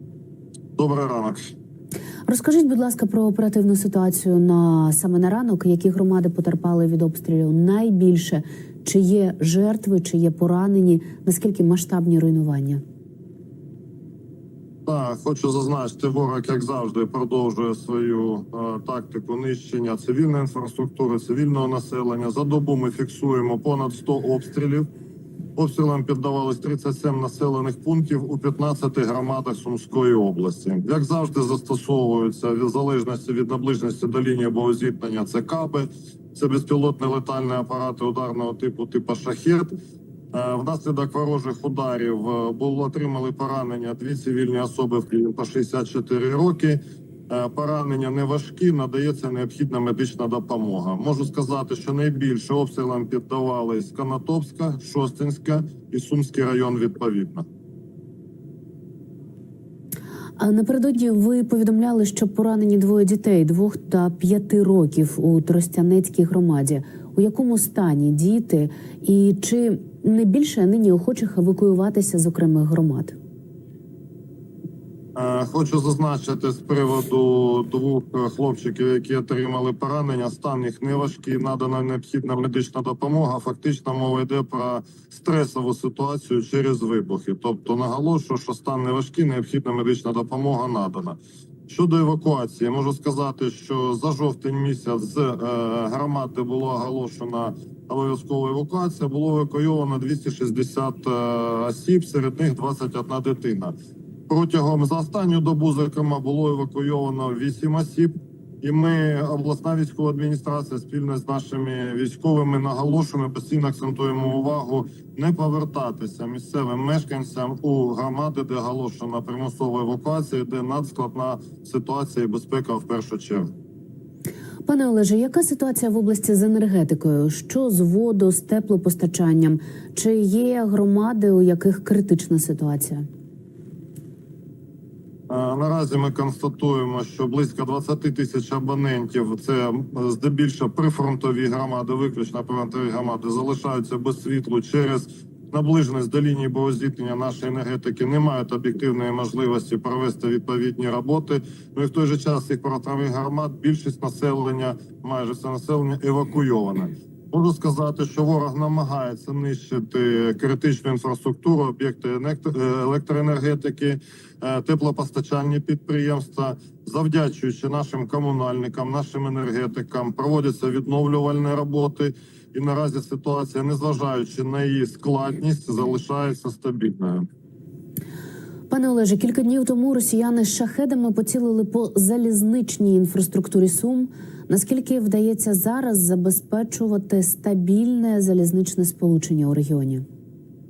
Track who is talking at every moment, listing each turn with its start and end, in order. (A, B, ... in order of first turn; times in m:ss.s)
0:00.8-0:01.4 A
0:02.3-0:12.8 B
0:14.8-0:24.9 A
0:25.6-0:39.7 A
0:40.3-0:57.4 A
1:00.4-1:13.2 B
1:15.2-1:43.7 A
1:44.3-2:03.5 A
2:04.7-2:13.0 B
2:15.3-2:57.2 A
2:58.7-3:10.0 B